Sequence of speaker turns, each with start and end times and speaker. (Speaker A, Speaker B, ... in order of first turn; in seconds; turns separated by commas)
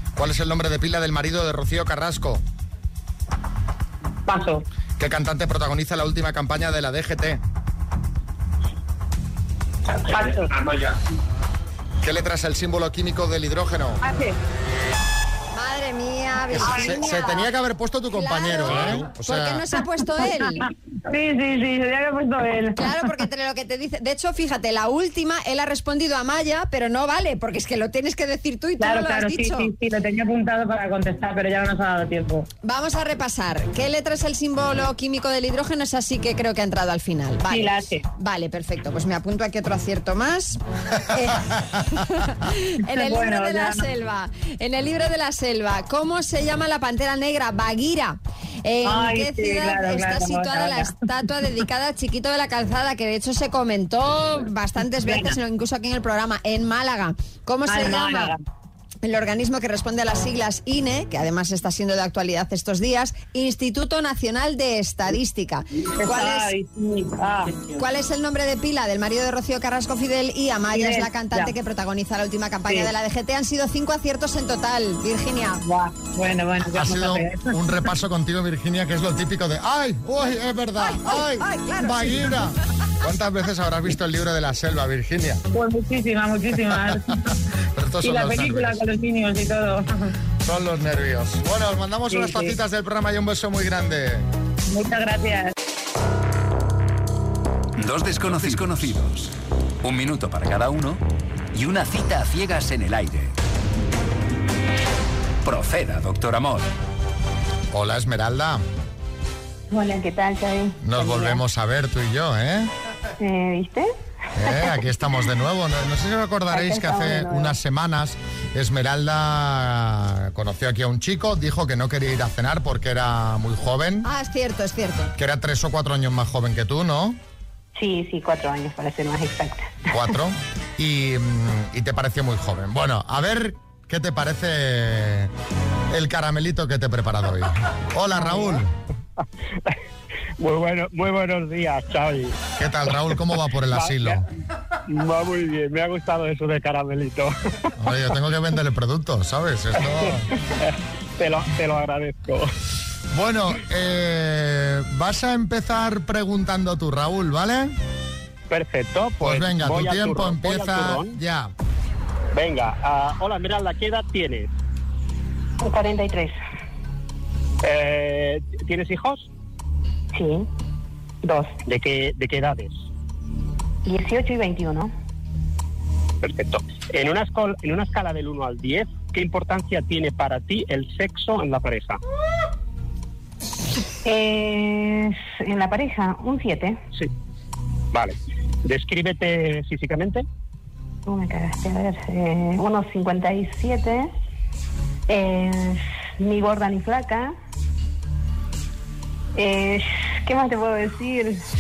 Speaker A: 0.1-2.4, Speaker B: 4.2-4.6, Speaker A: 5.0-7.4, Speaker B: 10.1-10.6, Speaker A: 12.0-14.0, Speaker B: 14.0-14.3, Speaker C: 15.5-17.5, Speaker A: 16.5-19.6, Speaker B: 16.7-17.0, Speaker C: 18.1-20.7, Speaker B: 20.6-23.0, Speaker C: 22.8-29.7, Speaker B: 28.8-32.5, Speaker C: 32.6-58.3, Speaker B: 37.5-38.0, Speaker B: 42.9-43.9, Speaker B: 48.8-51.1, Speaker B: 55.0-55.4, Speaker B: 57.7-58.4, Speaker C: 59.0-66.5, Speaker B: 66.0-67.7, Speaker C: 67.7-75.6, Speaker B: 70.7-71.5, Speaker B: 72.7-72.9, Speaker B: 75.6-77.6, Speaker A: 76.6-85.4, Speaker C: 80.8-82.5, Speaker B: 85.5-87.3, Speaker A: 87.8-88.8, Speaker B: 88.0-90.1, Speaker A: 90.4-94.3, Speaker B: 92.1-92.6, Speaker B: 94.7-95.5, Speaker D: 97.8-101.0, Speaker D: 101.5-103.3, Speaker D: 105.4-106.7, Speaker A: 107.7-108.6, Speaker E: 109.7-111.4, Speaker A: 110.8-112.7, Speaker E: 113.2-113.9, Speaker A: 114.3-124.1, Speaker E: 116.5-117.6, Speaker C: 124.0-125.1, Speaker A: 125.2-127.2, Speaker E: 127.8-129.8, Speaker A: 129.9-135.3, Speaker A: 135.9-138.7, Speaker F: 140.4-142.4, Speaker A: 142.6-144.2, Speaker F: 143.7-144.2, Speaker F: 144.9-147.3, Speaker A: 147.8-150.3, Speaker F: 150.6-152.5, Speaker A: 153.1-157.7, Speaker F: 158.5-161.2, Speaker A: 159.2-161.5, Speaker F: 162.3-164.5, Speaker E: 165.6-166.4, Speaker F: 167.6-169.3, Speaker E: 170.1-170.5, Speaker E: 171.2-171.6, Speaker F: 171.6-172.8, Speaker E: 173.8-174.9, Speaker F: 176.2-182.0, Speaker E: 184.0-186.8, Speaker F: 187.9-190.2, Speaker E: 191.1-194.1, Speaker E: 195.1-197.3, Speaker E: 199.3-201.4